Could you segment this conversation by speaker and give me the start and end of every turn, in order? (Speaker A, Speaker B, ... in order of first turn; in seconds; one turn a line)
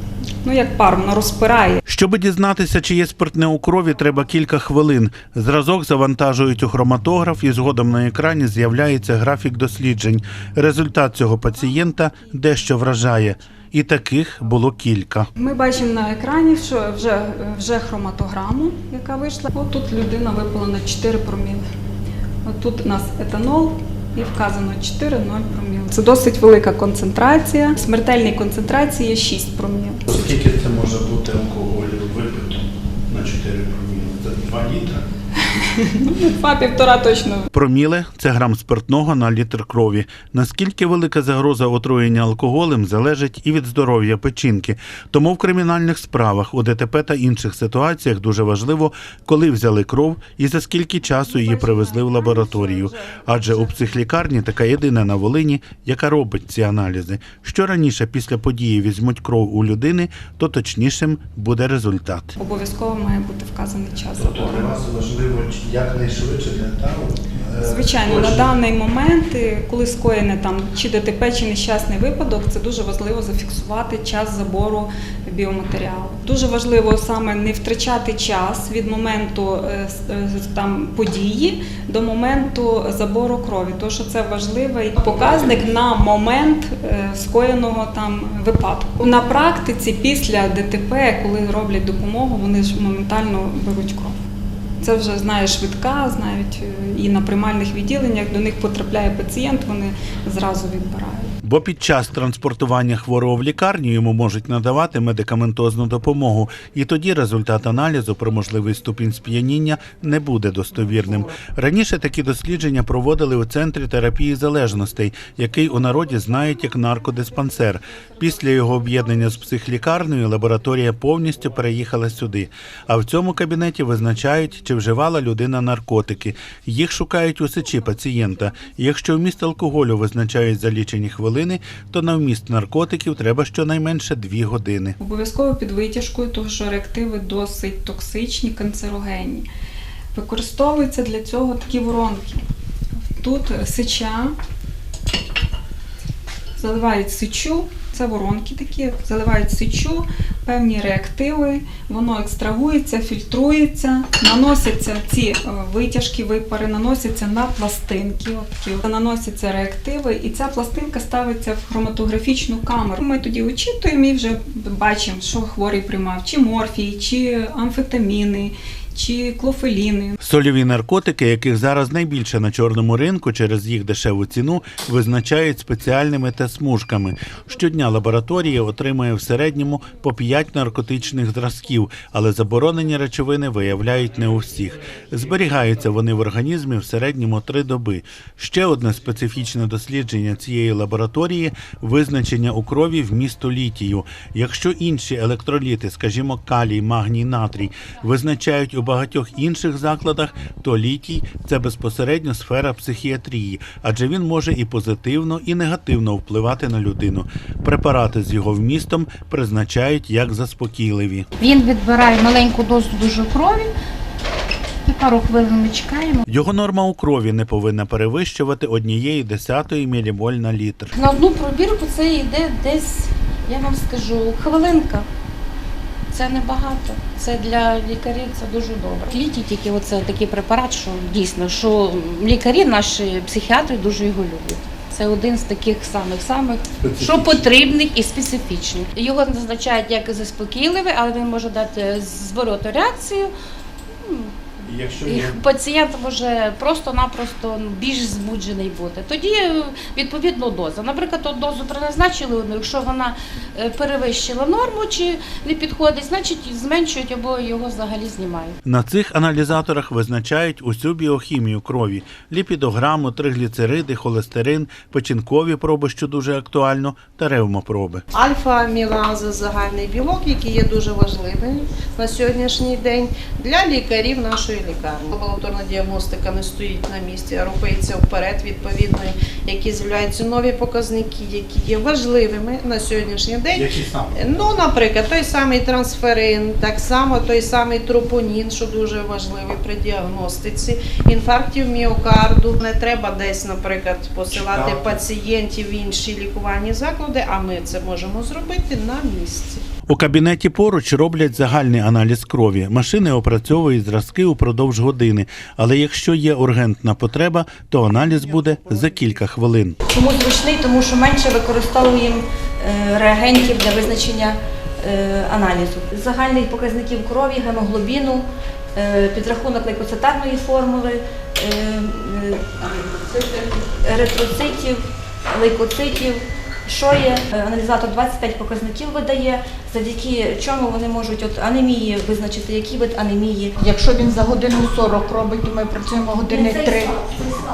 Speaker A: 0.4-1.8
Speaker B: 1.9-15.3
Speaker A: 11.5-13.4
Speaker A: 15.4-21.6
Speaker A: 22.4-30.0
Speaker B: 30.1-35.0
Speaker A: 35.6-37.5
Speaker B: 37.5-62.4
Speaker C: 51.4-52.9
Speaker A: 62.4-64.7
Speaker B: 64.2-68.4
Speaker A: 67.6-94.2
Speaker A: 94.8-101.3
Speaker B: 101.4-135.0
Speaker A: 135.0-139.5
Speaker A: 140.1-142.4
Speaker A: 143.1-144.3
Speaker A: 146.6-170.2
Speaker B: 170.2-211.3
Speaker C: 211.4-213.7
Speaker C: 214.9-216.2
Speaker B: 216.3-220.9
Speaker C: 220.9-225.1
Speaker C: 226.1-243.3
Speaker B: 236.8-237.5
Speaker C: 244.1-244.3
Speaker B: 244.7-245.4
Speaker C: 245.0-258.6
Speaker B: 258.7-268.0
Speaker D: 268.1-283.6
Speaker B: 283.5-284.6
Speaker D: 284.2-299.6
Speaker B: 294.3-295.1
Speaker B: 299.9-309.8
Speaker E: 309.9-333.6
Speaker F: 333.6-337.0
Speaker E: 336.2-337.2